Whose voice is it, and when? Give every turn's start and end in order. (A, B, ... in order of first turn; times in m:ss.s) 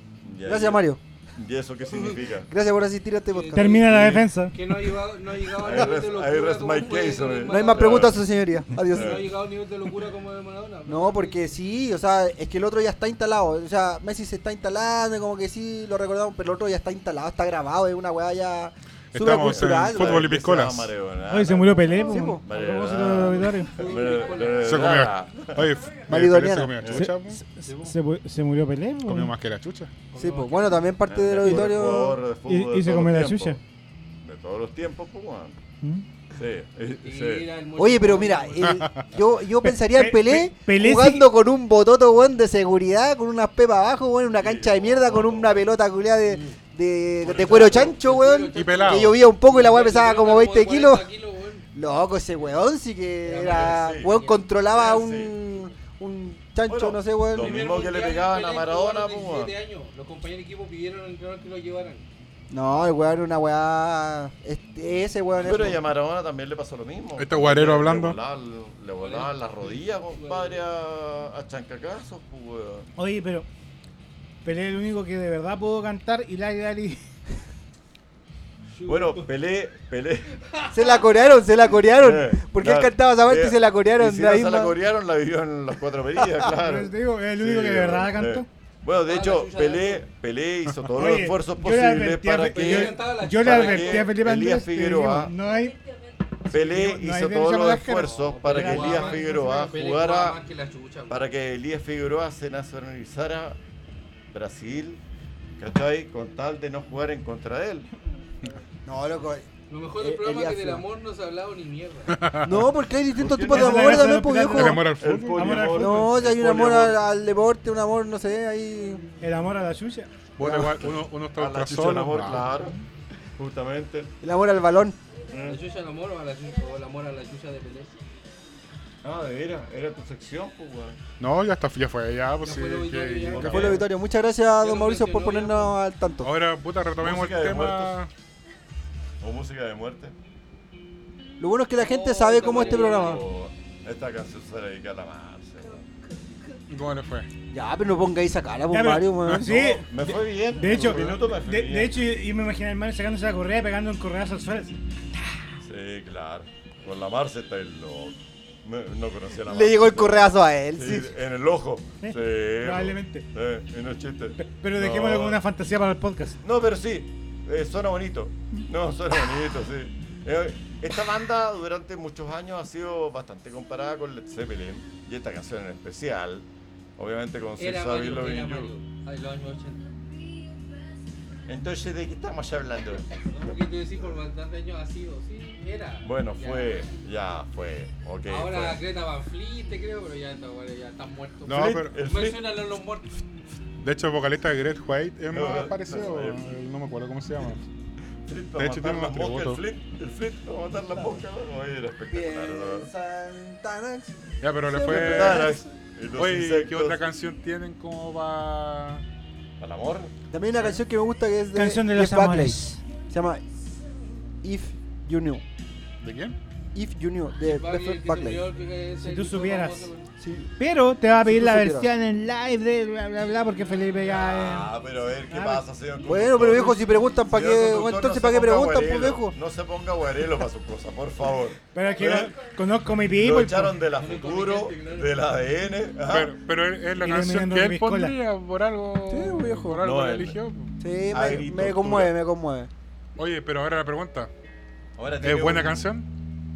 0:00.2-0:02.5 A
0:00.4-0:01.0 B
0:02.5-0:04.1 B
0:03.3-0:08.2 C
0:03.5-0:04.5 D
0:05.5-0:08.2 A
0:07.5-0:09.2 B
0:08.9-0:11.4 C
0:08.9-0:09.3 A
0:10.9-0:20.3 B
0:19.1-0:20.9 E
0:19.2-0:25.8 A
0:21.3-0:23.8 D
0:22.0-0:22.4 B
0:23.6-0:24.9 C
0:24.6-0:27.4 E
0:26.1-0:27.1 B
0:26.8-0:27.1 A
0:27.3-0:29.3 D
0:27.6-0:27.9 C
0:29.0-0:29.9 E
0:30.1-0:30.9 C
0:30.2-0:32.2 B
0:31.0-0:33.6 A
0:32.4-0:33.6 D
0:34.2-0:35.6 A
0:36.3-0:37.5 A
0:37.0-0:38.8 C
0:37.8-0:51.1 B
0:38.6-0:39.0 E
0:39.6-0:41.3 D
0:44.4-0:45.7 A
0:46.3-0:46.6 C
0:47.2-0:48.0 A
0:47.2-0:51.6 C
0:48.6-0:49.2 E
0:51.7-0:57.7 B
0:53.2-0:54.5 C
0:53.4-0:54.1 A
0:54.7-0:55.4 A
0:56.7-0:59.5 A
0:57.3-1:02.0 C
1:02.5-1:05.8 B
1:05.4-1:12.9 A
1:07.2-1:08.2 E
1:09.0-1:10.6 C
1:13.0-1:13.4 D
1:14.4-1:17.0 D
1:18.7-1:19.3 C
1:18.8-1:20.4 A
1:20.4-1:21.0 C
1:20.7-1:24.8 B
1:22.0-1:35.3 A
1:26.5-1:28.5 D
1:29.0-1:30.0 C
1:31.0-1:35.8 D
1:32.5-1:34.1 C
1:36.4-1:39.6 D
1:36.5-1:40.4 A
1:38.0-1:41.2 C
1:41.1-1:43.6 A
1:44.3-1:45.0 A
1:45.6-1:47.9 A
1:48.8-1:49.4 B
1:49.7-1:52.2 C
1:50.0-1:50.8 B
1:52.1-1:52.6 E
1:52.4-1:54.8 B
1:53.1-1:54.2 A
1:53.4-1:56.1 D
1:54.5-1:55.8 E
1:54.9-1:57.0 A
1:55.7-1:59.0 B
1:59.2-2:00.1 D
2:00.4-2:02.5 E
2:00.4-2:02.8 A
2:03.3-2:04.1 A
2:04.2-2:05.0 B
2:05.3-2:05.6 A
2:05.4-2:07.9 C
2:09.0-2:11.0 A
2:11.2-2:13.8 E
2:12.4-2:13.8 C
2:13.3-2:13.8 A
2:13.3-2:16.4 B
2:14.6-2:15.8 C
2:16.2-2:18.1 E
2:17.0-2:18.0 A
2:19.2-2:20.1 A
2:21.4-2:23.2 B
2:21.8-2:23.3 C
2:22.4-2:25.8 A
2:26.7-2:27.3 E
2:27.5-2:29.8 B
2:28.7-2:34.8 D
2:29.4-2:32.0 A
2:35.6-2:45.4 A
2:39.4-2:41.1 B
2:42.0-2:43.3 D
2:44.4-2:46.4 D
2:46.4-2:58.7 A
2:57.6-2:59.9 C
3:01.5-3:03.5 A
3:03.2-3:06.8 C
3:06.0-3:08.8 A
3:08.3-3:13.1 C
3:11.4-3:12.0 E
3:11.5-3:12.5 A
3:13.8-3:17.6 E
3:15.3-3:16.4 A
3:18.2-3:22.9 A
3:18.6-3:19.6 E
3:22.1-3:25.6 B
3:24.4-3:25.5 E
3:24.8-3:27.0 A
3:26.1-3:29.0 E
3:29.6-3:30.1 A
3:30.3-3:33.4 B
3:31.5-3:32.8 D
3:34.4-3:35.4 B
3:36.0-3:36.4 E
3:36.7-3:38.4 B
3:37.4-3:40.1 C
3:39.0-3:39.9 D
3:40.2-3:40.5 B
3:40.6-3:44.7 D
3:41.2-3:41.9 B
3:43.8-3:44.1 C
3:44.1-3:52.3 A
3:45.3-3:45.6 D
3:46.0-3:49.3 B
3:51.7-3:53.8 D
3:53.0-3:56.3 A
3:54.0-3:55.2 C
3:56.1-4:00.7 E
3:57.0-3:58.2 D
3:59.1-3:59.8 B
3:59.8-4:00.4 A
4:00.8-4:02.7 B
4:01.1-4:02.2 A
4:03.2-4:04.3 E
4:05.0-4:05.9 A
4:05.2-4:06.1 E